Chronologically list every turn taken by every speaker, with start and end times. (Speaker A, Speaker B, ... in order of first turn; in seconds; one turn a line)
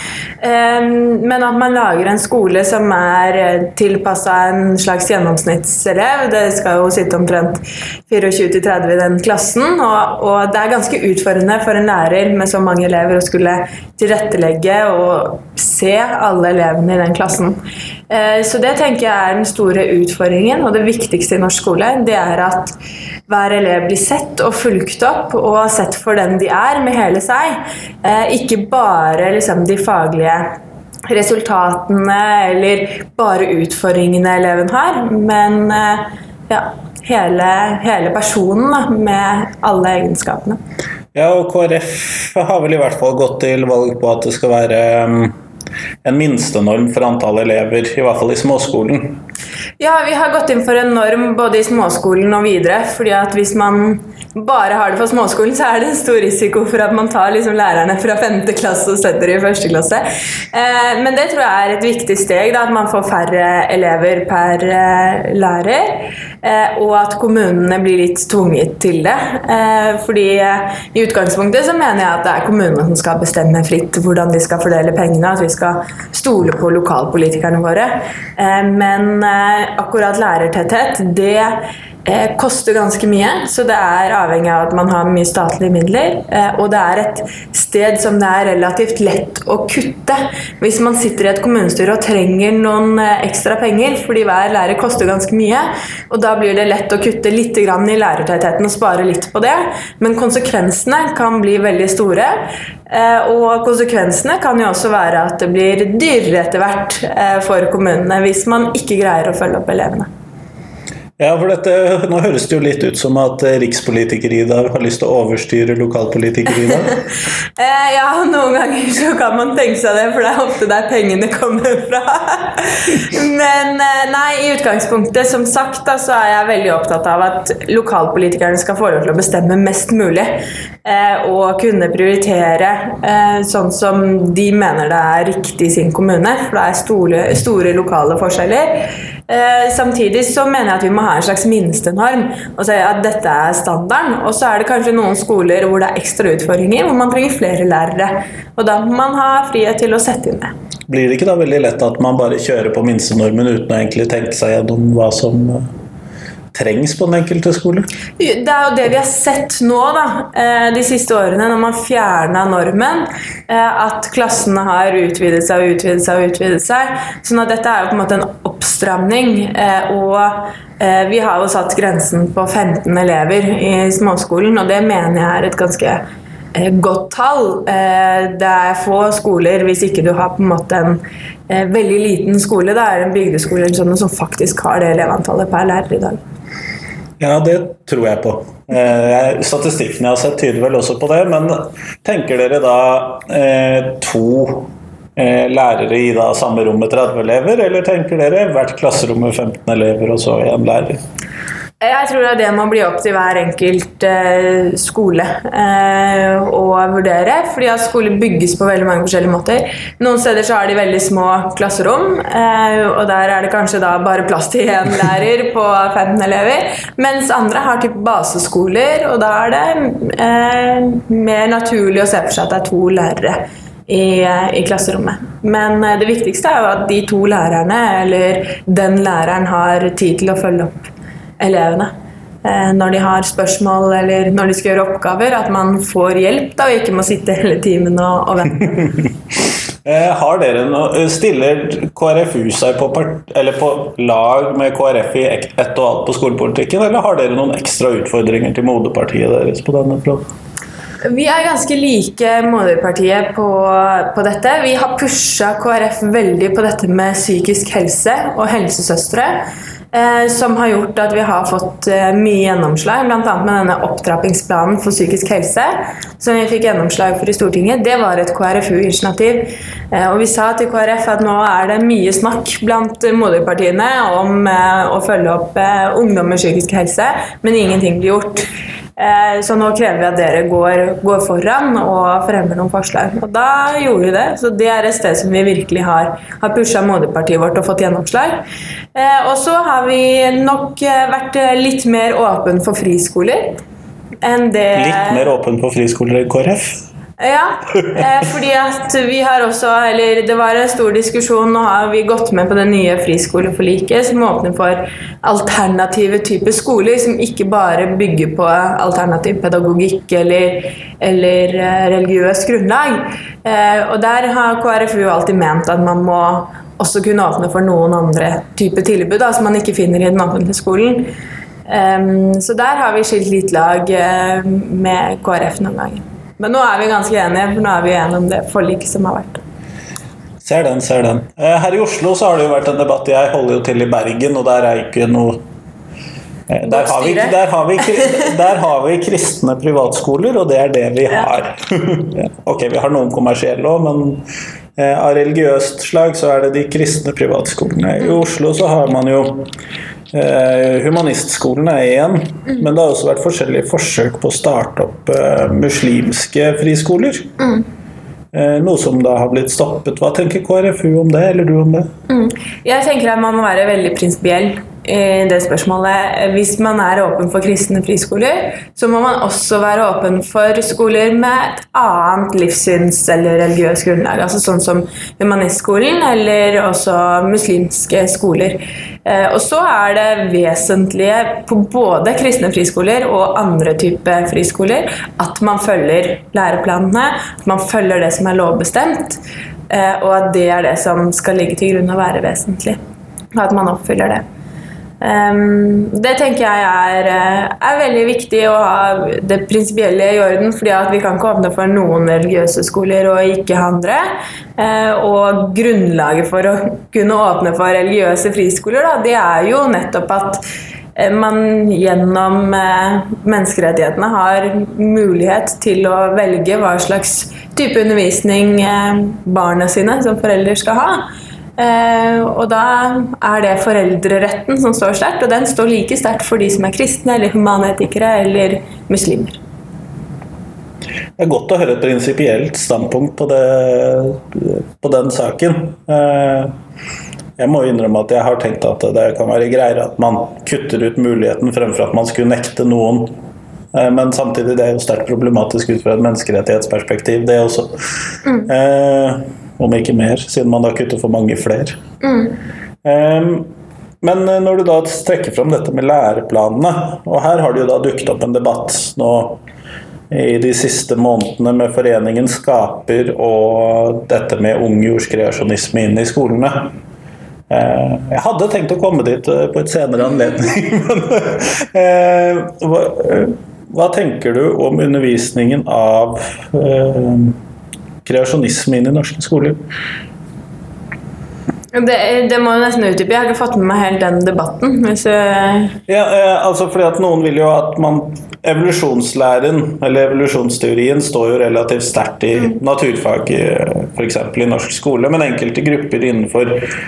Speaker A: 0.4-22.8
Speaker A: 23.3-30.5
Speaker A: 31.1-40.6
Speaker B: 41.1-45.3
Speaker B: 46.0-49.2
Speaker A: 49.8-110.1
Speaker B: 111.2-117.0
Speaker A: 117.6-150.5
Speaker B: 150.9-155.7
Speaker B: 156.5-157.9
Speaker A: 158.2-186.2
Speaker B: 187.2-201.0
Speaker A: 201.8-230.9
Speaker A: 231.4-231.9
Speaker A: 232.4-239.0
Speaker B: 239.8-250.2
Speaker A: 251.0-293.6
Speaker A: 294.2-295.3
Speaker B: 294.7-296.8
Speaker A: 297.2-321.1
Speaker A: 321.7-329.4
Speaker B: 330.4-335.4
Speaker B: 336.5-344.2
Speaker A: 336.6-337.3
Speaker B: 344.8-349.5
Speaker B: 350.1-357.3
Speaker B: 358.3-361.9
Speaker A: 362.1-392.8
Speaker A: 393.3-394.2
Speaker A: 395.0-404.1
Speaker A: 404.6-410.4
Speaker A: 410.9-421.1
Speaker A: 421.6-429.4
Speaker B: 431.2-436.5
Speaker B: 437.4-443.1
Speaker B: 443.7-447.7
Speaker A: 448.2-448.5
Speaker B: 448.4-451.8
Speaker A: 452.0-452.4
Speaker B: 452.8-453.5
Speaker B: 454.0-459.4
Speaker B: 460.1-466.7
Speaker B: 467.5-477.4
Speaker B: 478.0-479.6
Speaker A: 481.7-485.8
Speaker B: 485.9-496.6